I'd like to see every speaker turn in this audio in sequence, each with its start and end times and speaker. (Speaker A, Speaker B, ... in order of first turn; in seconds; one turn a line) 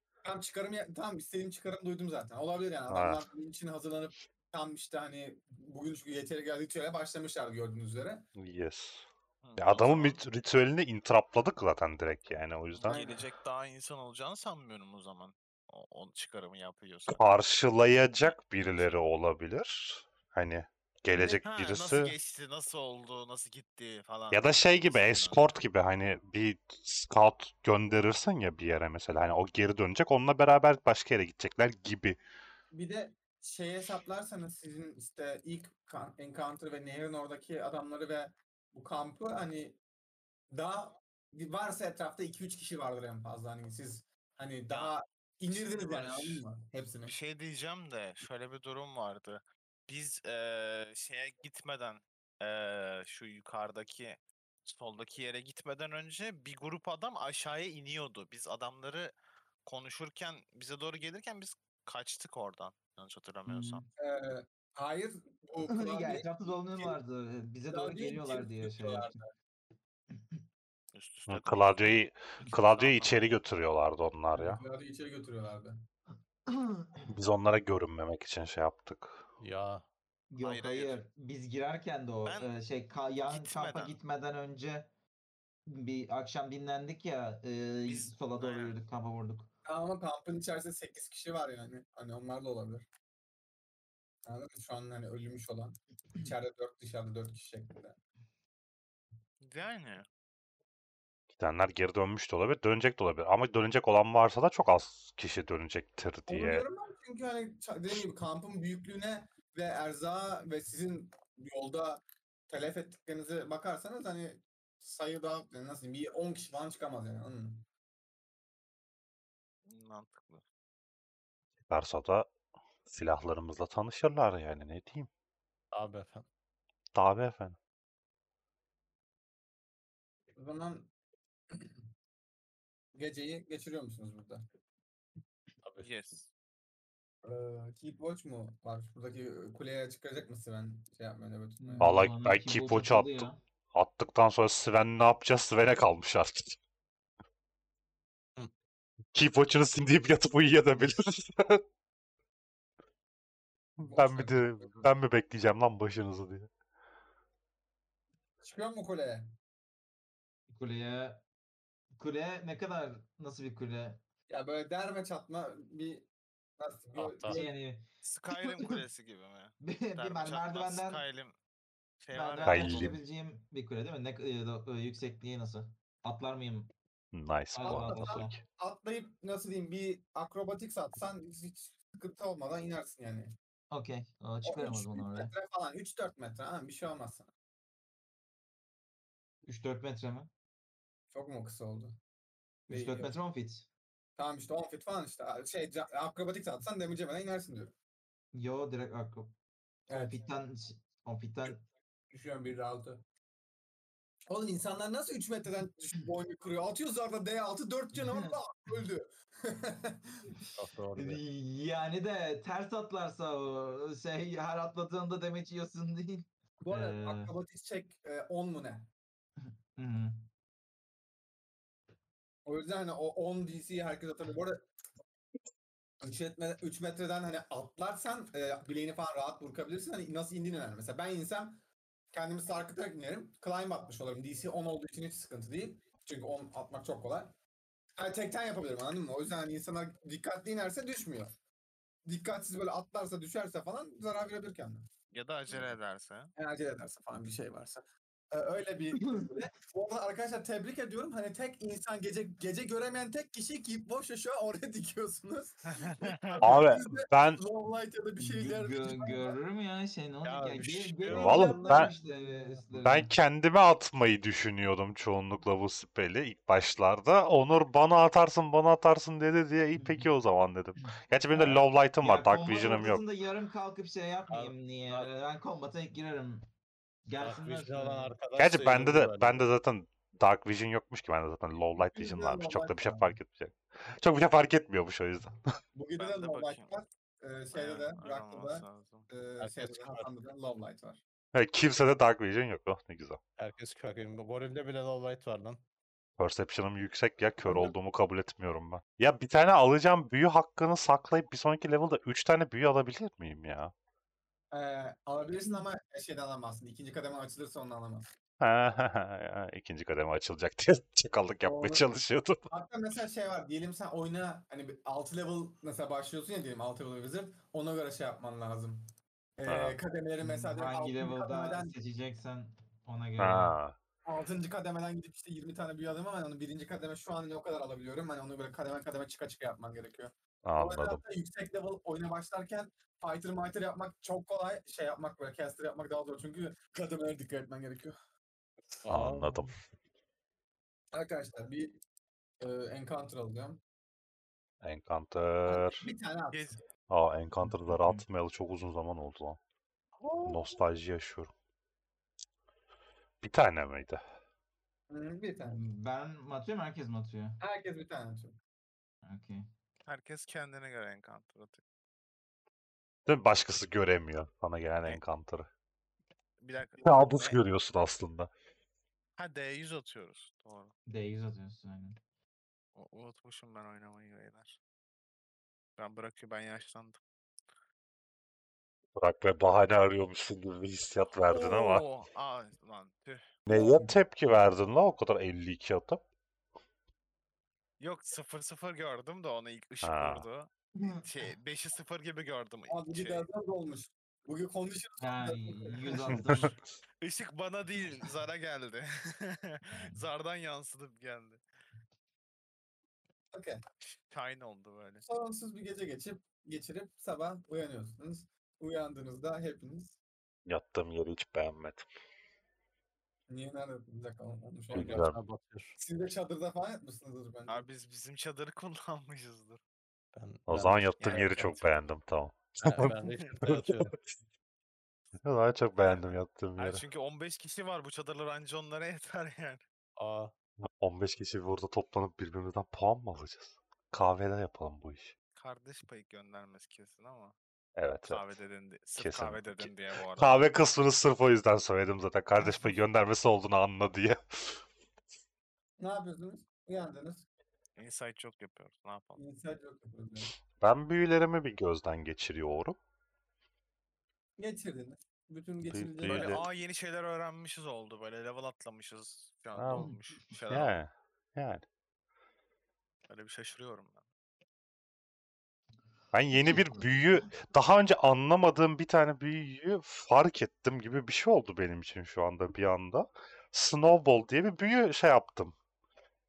Speaker A: 0.2-8.3
Speaker B: 2.9-3.2
Speaker B: 8.3-9.0
Speaker C: 9.4-10.2
Speaker B: 9.6-13.0
Speaker C: 12.7-17.2
Speaker A: 12.9-13.2
Speaker B: 17.1-22.1
Speaker C: 18.2-18.8
Speaker C: 21.1-25.4
Speaker B: 24.3-32.2
Speaker A: 32.7-39.8
Speaker A: 40.5-47.1
Speaker C: 45.5-46.4
Speaker C: 47.0-59.1
Speaker C: 59.6-63.9
Speaker D: 63.5-63.8
Speaker A: 64.0-67.0
Speaker D: 65.6-69.2
Speaker A: 67.7-69.3
Speaker D: 70.1-70.4
Speaker C: 70.9-73.3
Speaker B: 71.3-74.6
Speaker A: 74.3-75.8
Speaker D: 76.5-77.1
Speaker B: 77.1-79.2
Speaker E: 79.4-79.8
Speaker D: 80.3-84.9
Speaker C: 80.4-81.0
Speaker C: 82.2-82.5
Speaker C: 83.3-84.0
Speaker D: 85.7-89.5
Speaker C: 87.8-88.7
Speaker A: 89.7-92.8
Speaker A: 94.2-98.0
Speaker C: 99.4-100.0
Speaker B: 101.3-106.6
Speaker A: 106.3-117.7
Speaker C: 119.7-120.4
Speaker B: 121.7-122.3
Speaker B: 122.8-125.1
Speaker E: 125.7-126.3
Speaker B: 126.9-127.6
Speaker A: 130.3-130.9
Speaker A: 132.9-134.4
Speaker E: 135.6-135.9
Speaker C: 135.8-136.3
Speaker A: 137.2-142.0
Speaker D: 141.6-143.4
Speaker B: 141.8-146.6
Speaker B: 149.1-151.6
Speaker B: 153.8-156.5
Speaker A: 153.8-154.9
Speaker A: 158.4-159.3
Speaker D: 160.5-161.2
Speaker D: 161.9-164.0
Speaker A: 164.3-166.1
Speaker A: 166.6-167.5
Speaker E: 166.9-167.4
Speaker D: 167.3-168.8
Speaker C: 168.0-171.3
Speaker D: 169.6-171.0
Speaker C: 172.0-173.0
Speaker D: 172.1-176.7
Speaker B: 172.4-173.0
Speaker B: 177.1-178.4
Speaker D: 177.5-178.4
Speaker A: 177.6-183.3
Speaker D: 183.7-185.3
Speaker A: 184.4-187.3
Speaker D: 189.4-190.3
Speaker A: 191.1-192.0
Speaker A: 192.7-193.2
Speaker D: 192.7-193.7
Speaker A: 194.2-197.7
Speaker D: 198.3-199.3
Speaker A: 199.9-200.2
Speaker D: 199.9-201.6
Speaker A: 202.1-203.0
Speaker A: 204.3-210.3
Speaker D: 207.9-208.4
Speaker D: 210.4-217.3
Speaker E: 210.6-211.2
Speaker A: 216.6-218.9
Speaker D: 219.4-220.3
Speaker A: 222.4-224.6
Speaker A: 226.0-237.3
Speaker A: 238.0-241.3
Speaker A: 242.1-244.8
Speaker C: 245.1-246.3
Speaker A: 246.3-259.4
Speaker D: 249.0-249.3
Speaker C: 255.7-256.6
Speaker B: 256.4-257.4
Speaker D: 258.2-263.1
Speaker E: 260.2-261.9
Speaker A: 261.1-261.8
Speaker B: 261.1-261.9
Speaker B: 262.8-273.0
Speaker D: 269.8-270.0
Speaker D: 271.3-276.4
Speaker E: 274.3-275.1
Speaker D: 277.1-278.1
Speaker E: 277.2-279.5
Speaker B: 278.4-285.4
Speaker A: 281.8-283.2
Speaker A: 285.7-291.0
Speaker C: 286.0-286.7
Speaker C: 287.5-289.1
Speaker E: 289.4-290.1
Speaker B: 291.3-293.2
Speaker E: 293.4-295.6
Speaker B: 296.2-303.7
Speaker A: 297.4-297.7
Speaker A: 304.5-308.1
Speaker B: 308.4-312.4
Speaker A: 311.4-311.9
Speaker A: 312.5-318.8
Speaker A: 319.4-321.7
Speaker B: 319.5-319.8
Speaker D: 320.2-323.6
Speaker B: 323.2-323.8
Speaker A: 324.1-337.9
Speaker B: 330.4-331.0
Speaker E: 338.8-339.5
Speaker B: 338.9-339.5
Speaker A: 340.9-341.8
Speaker A: 342.4-343.6
Speaker B: 344.6-345.9
Speaker A: 345.4-346.6
Speaker C: 346.3-346.6
Speaker B: 346.9-349.4
Speaker D: 347.5-348.0
Speaker A: 350.0-350.5
Speaker B: 350.2-351.3
Speaker B: 353.2-354.0
Speaker A: 354.9-355.6
Speaker D: 355.4-357.4
Speaker A: 357.4-358.4
Speaker D: 359.0-359.4
Speaker C: 359.9-361.6
Speaker B: 363.1-365.5
Speaker C: 366.4-367.4
Speaker B: 366.8-368.3
Speaker C: 369.2-370.7
Speaker D: 370.9-372.0
Speaker C: 372.7-374.6
Speaker C: 375.8-377.0
Speaker B: 378.9-381.8
Speaker C: 381.3-383.2
Speaker B: 383.5-386.0
Speaker A: 383.5-383.9
Speaker C: 387.8-393.2
Speaker B: 389.8-390.2
Speaker A: 392.7-396.5
Speaker D: 395.0-396.5
Speaker C: 397.0-401.4
Speaker A: 403.3-403.6
Speaker C: 404.1-405.0
Speaker A: 405.0-410.0
Speaker B: 410.4-411.9
Speaker A: 413.3-415.1
Speaker E: 414.7-415.8
Speaker B: 414.7-415.2
Speaker A: 415.8-417.6
Speaker C: 417.5-419.6
Speaker E: 420.1-421.2
Speaker B: 420.5-423.9
Speaker C: 421.0-421.6
Speaker E: 422.6-423.9
Speaker B: 425.2-426.8
Speaker C: 426.6-429.6
Speaker E: 430.0-430.3
Speaker B: 430.8-435.1
Speaker C: 435.4-437.3
Speaker B: 437.8-438.4
Speaker C: 438.0-440.4
Speaker B: 439.0-444.6
Speaker A: 445.8-447.2
Speaker C: 447.8-449.2
Speaker A: 449.2-450.3
Speaker B: 450.6-452.8
Speaker A: 454.4-456.4
Speaker B: 455.7-456.4
Speaker C: 456.0-460.7
Speaker B: 459.6-459.9
Speaker B: 460.5-461.6
Speaker C: 463.1-464.0
Speaker B: 466.1-475.5
Speaker D: 466.4-467.2